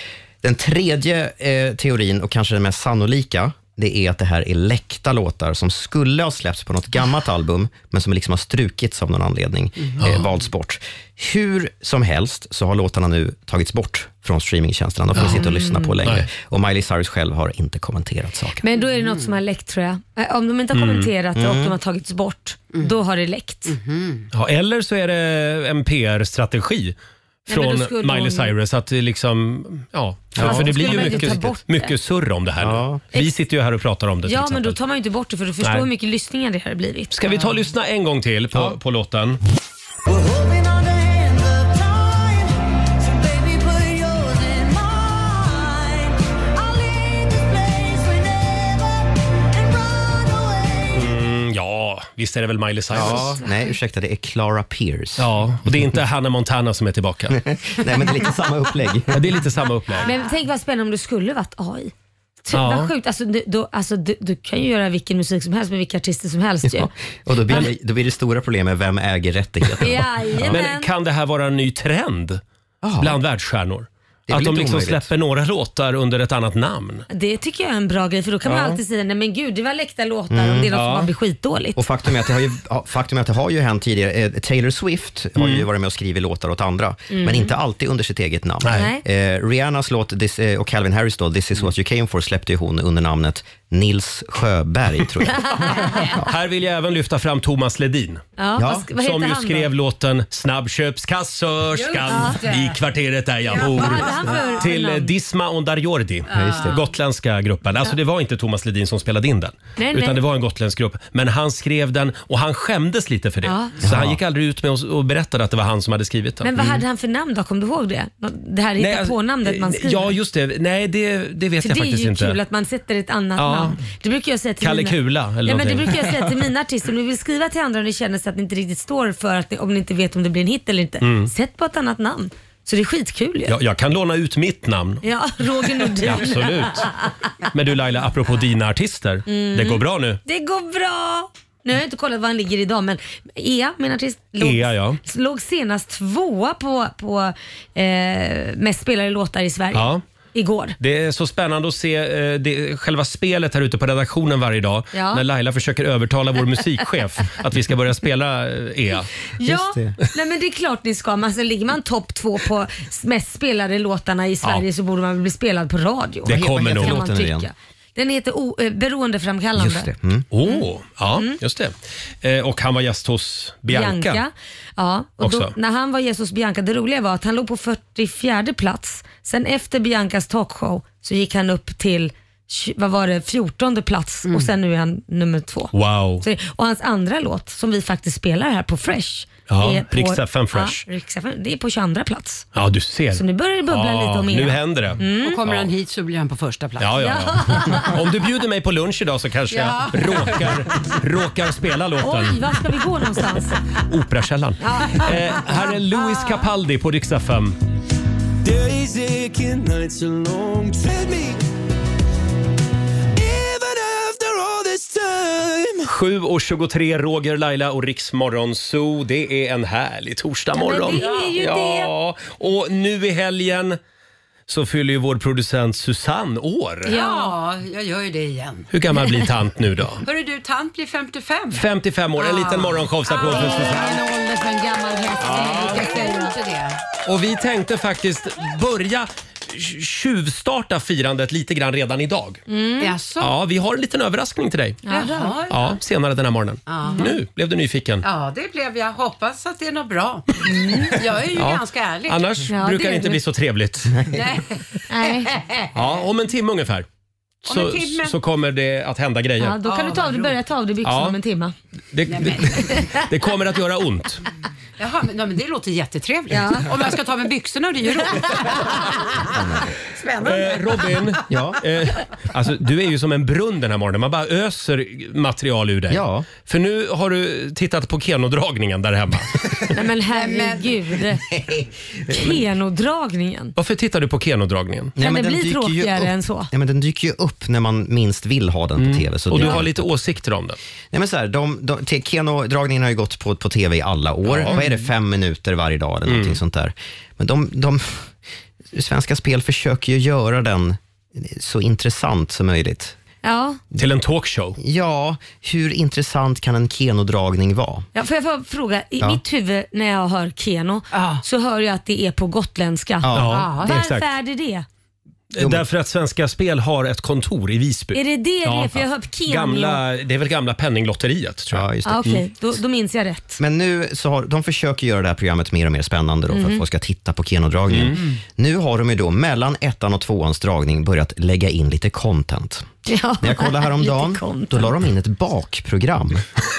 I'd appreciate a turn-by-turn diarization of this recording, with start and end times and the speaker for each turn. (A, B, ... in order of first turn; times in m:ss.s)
0:00.4-0:18.6 A
0:10.0-0:10.2 B
0:15.2-0:16.0 C
0:18.6-0:23.8 C
0:18.9-0:19.3 D
0:20.7-0:21.1 B
0:21.4-0:21.8 A
0:23.7-0:24.3 D
0:24.3-0:34.8 B
0:27.5-0:28.5 C
0:30.4-0:31.1 A
0:30.4-0:31.9 C
0:32.6-0:33.0 A
0:34.3-0:37.1 C
0:35.6-0:35.9 B
0:37.1-0:39.4 B
0:40.4-0:42.0 D
0:43.0-0:45.9 D
0:46.7-0:48.4 D
0:50.9-0:53.4 B
0:52.9-0:55.3 A
0:53.0-0:53.7 C
0:55.2-0:57.4 B
0:57.3-0:59.4 A
0:59.1-1:00.1 B
1:00.0-1:01.9 C
1:02.4-1:06.9 C
1:02.5-1:02.9 B
1:06.6-1:10.6 A
1:09.8-1:10.9 C
1:10.4-1:12.4 B
1:12.8-1:13.2 A
1:13.0-1:17.0 B
1:14.3-1:15.1 A
1:17.1-1:21.8 C
1:18.4-1:18.8 B
1:20.3-1:20.7 A
1:20.7-1:21.1 B
1:21.8-1:36.3 A
1:25.4-1:25.6 B
1:27.1-1:27.5 C
1:28.6-1:28.9 B
1:28.7-1:29.0 C
1:35.5-1:36.0 C
1:36.1-1:38.2 B
1:38.4-1:39.7 C
1:38.6-1:38.9 A
1:39.0-1:56.8 B
1:41.7-1:42.8 D
1:42.1-1:42.4 C
1:43.5-1:44.5 D
1:43.5-1:45.1 C
1:46.3-1:46.8 D
1:46.3-1:46.8 A
1:49.8-1:50.2 C
1:53.4-1:53.7 C
1:53.8-1:54.2 A
1:56.4-2:00.1 C
1:58.8-2:02.4 B
2:01.6-2:13.6 C
2:03.4-2:03.8 B
2:04.6-2:06.2 B
2:11.0-2:11.3 B
2:13.5-2:15.0 B
2:15.0-2:17.1 C
2:15.8-2:16.9 B
2:17.5-2:20.2 B
2:19.3-2:30.8 C
2:24.4-2:25.0 B
2:29.7-2:30.0 B
2:30.8-2:39.1 B
2:34.9-2:35.2 C
2:39.4-2:49.9 C
2:39.4-2:40.0 A
2:46.2-2:47.0 B
2:46.2-2:47.5 A
2:49.6-2:50.2 A
2:50.3-2:54.2 B
2:53.7-3:12.4 C
2:55.2-2:55.5 B
3:04.2-3:04.5 D
3:05.7-3:06.2 B
3:09.5-3:10.8 B
3:12.5-3:15.7 B
3:13.1-3:15.4 C
3:15.1-3:17.1 D
3:16.8-3:22.5 B
3:17.0-3:18.0 C
3:19.5-3:20.6 D
3:22.0-3:23.6 C
3:23.8-3:27.6 B
3:24.6-3:25.8 C
3:28.4-3:31.3 E
3:33.2-3:35.8 E
3:35.8-3:43.8 B
3:40.5-3:41.9 C
3:40.9-3:41.4 D
3:44.5-3:47.0 B
3:46.8-3:48.7 D
3:46.9-3:47.3 C
3:48.7-3:50.0 B
3:50.0-3:51.6 D
3:51.5-3:54.0 B
3:52.2-3:56.8 D
3:55.1-3:56.3 C
3:55.3-3:55.9 B
3:57.0-4:02.4 B
4:02.5-4:02.9 C
4:02.8-4:03.4 D
4:03.2-4:04.8 B
4:04.8-4:05.4 C
4:04.8-4:05.8 D
4:05.5-4:08.0 B
4:06.7-4:07.2 D
4:06.8-4:07.1 C
4:08.0-4:10.3 D
4:10.4-4:11.0 C
4:10.9-4:12.3 D
4:11.3-4:14.0 B
4:12.5-4:13.2 C
4:14.1-4:14.6 D
4:14.9-4:15.4 C
4:15.2-4:15.7 D
4:15.7-4:16.9 B
4:17.4-4:19.6 B
4:17.5-4:18.2 D
4:19.4-4:21.5 C
4:19.6-4:20.4 D
4:20.8-4:21.2 B
4:21.9-4:24.2 B
4:22.1-4:22.8 D
4:22.7-4:23.0 C
4:24.8-4:31.2 D
4:26.3-4:26.7 C
4:30.2-4:39.5 B
4:31.3-4:31.6 A
4:35.9-4:36.3 A
4:39.7-4:41.2 C
4:40.1-4:40.8 D
4:41.5-4:42.4 A
4:42.1-4:43.5 C
4:43.6-4:44.9 B
4:45.0-4:49.8 A
4:45.0-4:46.5 C
4:48.8-4:50.6 B
4:49.4-4:49.6 C
4:50.9-4:58.1 A
4:54.3-4:54.6 B
4:56.0-4:56.4 B
4:58.7-5:03.0 A
5:03.2-5:03.6 C
5:03.7-5:04.6 B
5:04.6-5:07.9 A
5:07.9-5:14.6 C
5:10.9-5:11.2 D
5:13.0-5:13.5 A
5:13.1-5:14.1 B
5:13.3-5:13.8 D
5:15.3-5:21.7 B
5:15.4-5:15.6 A
5:17.9-5:19.8 C
5:21.5-5:22.2 A
5:21.8-5:23.4 C
5:23.4-5:32.7 A
5:26.3-5:26.6 C
5:27.7-5:28.0 B
5:32.8-5:34.7 C
5:33.2-5:36.3 A